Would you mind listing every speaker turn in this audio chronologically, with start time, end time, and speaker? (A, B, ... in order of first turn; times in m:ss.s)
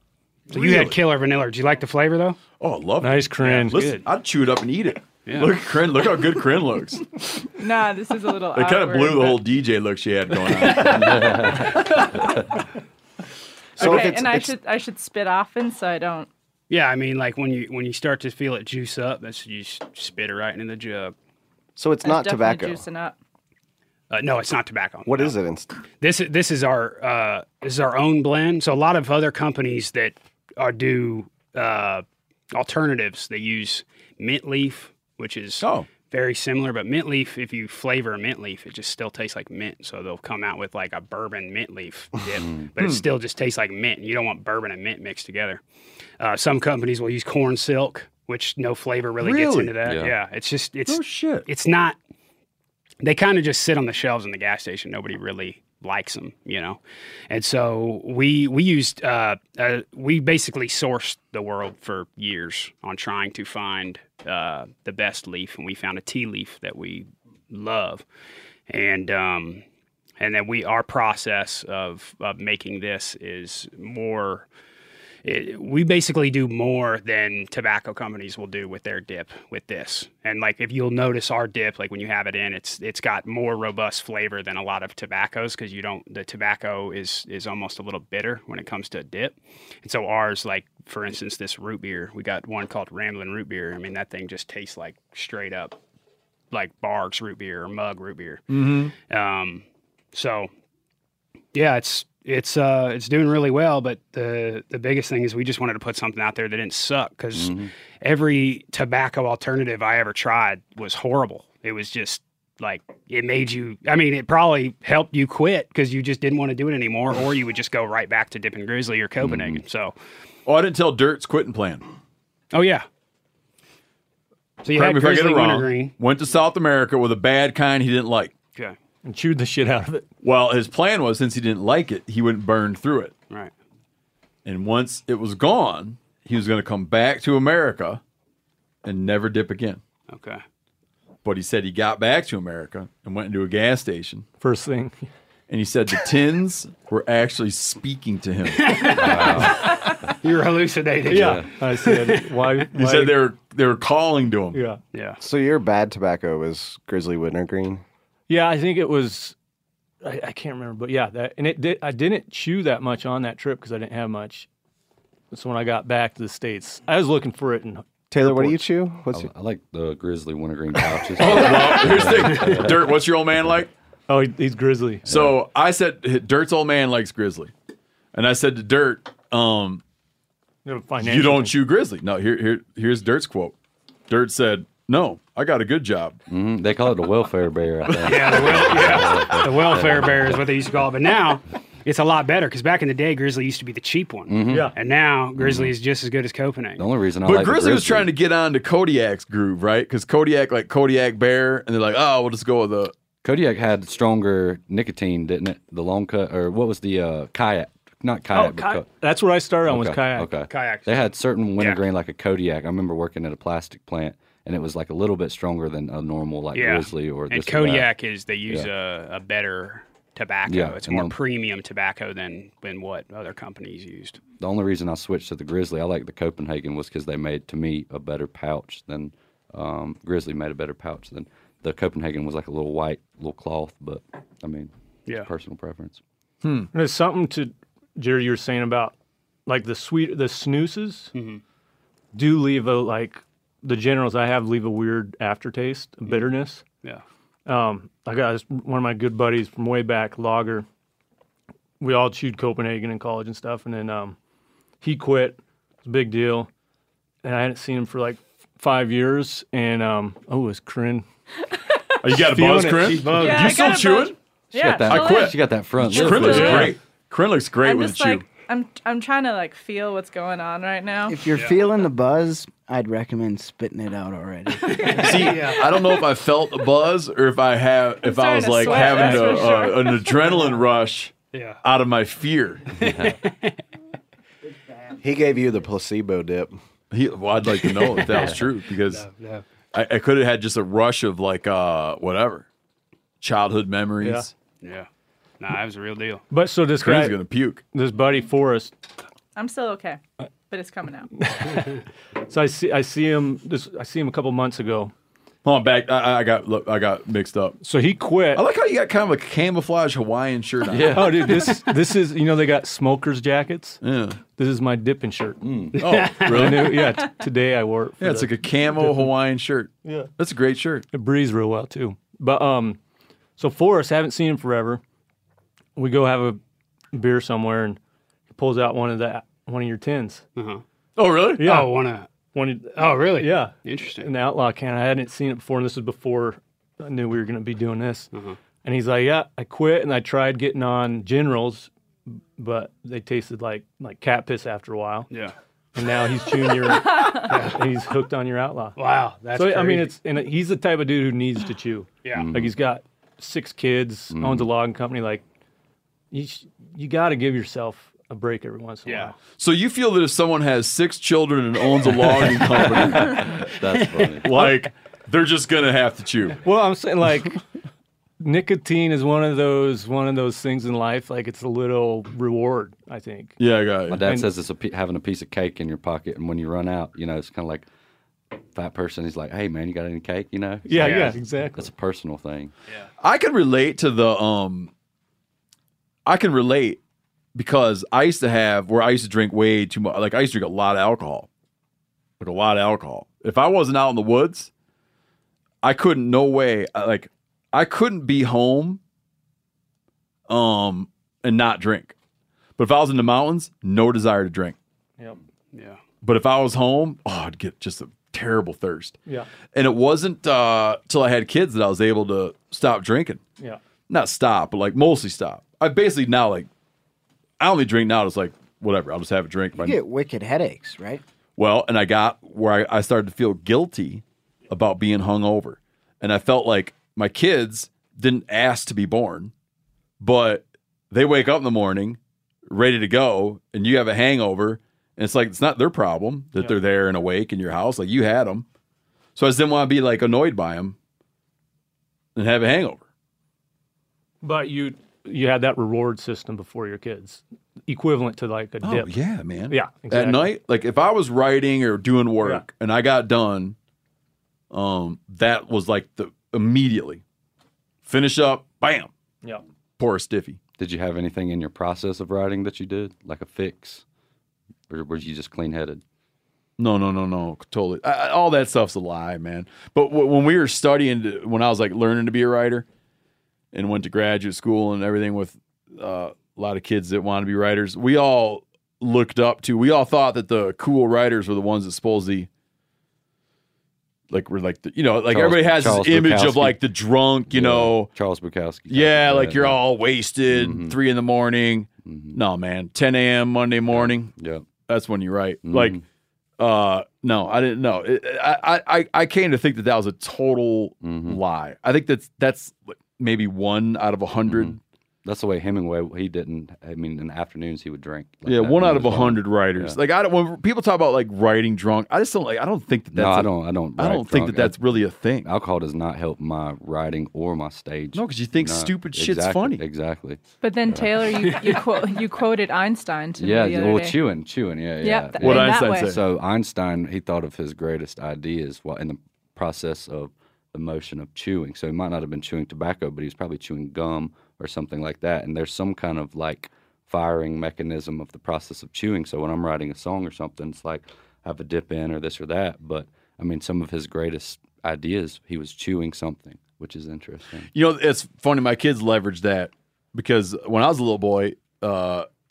0:00.5-0:01.0 A
0:00.5-0:02.4 B
0:02.6-0:07.2 A
0:03.0-0:03.7 C
0:03.4-0:04.0 B
0:05.2-0:05.5 B
0:07.5-0:09.4 D
0:08.5-0:11.3 A
0:10.9-0:11.7 E
0:13.8-0:14.3 A
0:13.8-0:16.3 D
0:13.8-0:14.5 F
0:16.7-0:21.1 B
0:21.8-0:22.8 F
0:22.0-0:23.2 D
0:24.1-0:25.4 B
0:25.0-0:25.8 F
0:26.0-0:45.6 B
0:35.6-0:35.9 A
0:42.4-0:42.7 E
0:42.8-0:43.0 A
0:46.2-0:52.0 B
0:49.2-0:49.8 A
0:49.8-0:50.1 E
0:50.9-0:51.5 A
0:53.0-1:08.0 B
1:08.7-1:09.6 B
1:10.2-1:14.5 B
1:15.2-1:35.8 B
1:36.5-1:40.5 B
1:38.5-1:38.9 A
1:41.5-2:00.0 B
1:47.3-1:47.7 E
1:59.2-1:59.6 E
2:00.4-2:01.8 A
2:02.5-2:02.8 B
2:04.6-2:05.9 B
2:04.7-2:08.3 A
2:09.0-2:10.1 C
2:10.2-2:13.1 A
2:14.4-2:18.0 A
2:18.8-2:19.8 A
2:20.1-2:20.4 B
2:21.2-2:24.2 A
2:24.4-2:25.1 C
2:25.5-2:29.5 A
2:28.5-2:32.3 B
2:28.9-2:29.9 E
2:31.1-2:33.2 C
2:31.1-2:31.4 E
2:32.7-2:34.6 A
2:34.5-2:34.8 C
2:34.9-2:35.2 B
2:35.2-2:37.8 F
2:38.3-2:39.4 C
2:40.0-2:44.5 C
2:45.3-2:48.6 C
2:48.1-2:49.3 F
2:49.1-2:53.0 E
2:51.2-2:53.7 A
2:54.1-2:55.0 C
2:55.0-2:55.4 E
2:55.1-2:57.5 A
2:58.1-2:59.8 A
3:00.6-3:01.5 C
3:01.0-3:03.5 A
3:04.1-3:06.2 A
3:06.3-3:10.4 E
3:07.9-3:08.2 A
3:08.0-3:16.8 B
3:14.3-3:14.7 E
3:14.5-3:14.7 C
3:15.4-3:15.7 E
3:16.8-3:18.1 E
3:17.2-3:22.9 A
3:23.2-3:28.9 E
3:28.3-3:30.3 C
3:29.6-3:37.9 E
3:30.5-3:31.8 B
3:36.5-3:44.2 B
3:40.5-3:41.2 E
3:44.4-3:56.0 E
3:56.4-3:56.7 A
3:56.7-3:58.9 C
3:59.4-4:01.1 C
4:01.1-4:01.4 B
4:02.1-4:06.6 C
4:07.4-4:10.6 C
4:11.8-4:14.2 C
4:14.8-4:16.5 C
4:17.2-4:21.0 C
4:22.0-4:24.1 A
4:22.1-4:23.6 C
4:23.1-4:26.7 D
4:24.6-4:26.7 E
4:24.8-4:28.2 A
4:27.6-4:31.2 D
4:31.1-4:35.1 G
4:34.6-4:35.7 B
4:34.9-4:42.8 A
4:38.0-4:40.3 D
4:38.6-4:39.6 B
4:41.3-4:41.6 B
4:42.8-4:43.6 B
4:42.8-4:43.2 E
4:45.0-4:46.6 F
4:46.9-4:49.1 A
4:48.9-4:49.4 B
4:49.7-4:52.5 A
4:53.2-4:54.3 A
4:54.0-4:54.2 C
4:54.6-4:54.9 B
4:55.4-4:56.2 B
4:56.3-4:57.2 C
4:56.8-4:57.6 A
4:57.7-4:58.7 C
4:59.4-5:01.1 D
5:01.1-5:04.9 C
5:05.4-5:07.6 A
5:07.6-5:08.4 C
5:08.3-5:11.4 A
5:10.6-5:11.6 E
5:10.9-5:13.8 C
5:13.8-5:14.2 A
5:14.3-5:15.4 C
5:15.4-5:15.8 E
5:15.7-5:16.7 B
5:15.8-5:17.0 A
5:16.2-5:19.1 C
5:18.0-5:20.8 A
5:19.8-5:20.1 C
5:20.9-5:22.8 C
5:23.4-5:24.8 C
5:25.8-5:26.4 C
5:26.9-5:27.8 C
5:28.3-5:30.2 C
5:30.4-5:30.6 B
5:31.0-5:31.5 A
5:31.4-5:31.7 C
5:31.4-5:32.1 B
5:32.3-5:38.1 C
5:32.7-5:34.1 B
5:38.1-5:38.4 B
5:38.6-5:41.7 C
5:42.4-5:45.1 C
5:45.7-5:48.8 C
5:47.2-5:47.6 B
5:48.8-5:49.9 B
5:49.3-5:55.2 C
5:52.1-5:52.5 E
5:54.1-5:54.5 E
5:56.1-5:59.1 C
5:58.8-5:59.1 B
5:59.4-6:03.5 A
6:02.7-6:04.4 E
6:04.2-6:06.4 A
6:06.4-6:07.4 C
6:08.2-6:13.4 C
6:13.4-6:14.0 A
6:13.9-6:17.6 E
6:18.5-6:22.5 E
6:20.6-6:21.7 C
6:20.8-6:21.1 B
6:23.0-6:24.7 A
6:26.0-6:26.8 A
6:27.3-6:31.3 A
6:32.2-6:34.5 A
6:35.6-6:38.8 A
6:40.3-6:41.9 A
6:42.6-6:44.6 A
6:45.5-6:45.8 B
6:46.0-6:49.0 A
6:49.5-6:53.2 A
6:53.9-6:56.5 A
6:57.4-6:59.8 A
6:59.6-7:01.0 G
7:01.4-7:09.3 A
7:10.0-7:18.4 A
7:19.2-7:20.8 A
7:22.2-7:22.8 A
7:24.2-7:28.9 C
7:28.6-7:33.6 A
7:29.5-7:30.3 C
7:34.5-7:37.0 A
7:37.8-7:38.9 A
7:39.8-7:40.4 A
7:40.6-7:43.8 E
7:44.7-7:45.8 E
7:46.6-7:52.6 A
7:53.5-8:02.3 A
8:04.1-8:07.9 A
8:05.1-8:06.6 E
8:07.3-8:09.7 E
8:08.7-8:14.1 A
8:10.3-8:10.8 E
8:11.8-8:12.2 E
8:13.7-8:14.5 E
8:14.6-8:15.8 A
8:15.4-8:15.8 E
8:16.4-8:24.6 A
8:20.8-8:21.2 E
8:24.2-8:29.8 E
8:28.2-8:35.3 A
8:32.9-8:34.6 E
8:35.2-8:41.2 E
8:37.9-8:39.6 A
8:40.4-8:44.0 D
8:43.2-9:07.5 E
8:44.8-8:45.9 D
8:45.2-8:46.0 A
9:07.5-9:12.1 A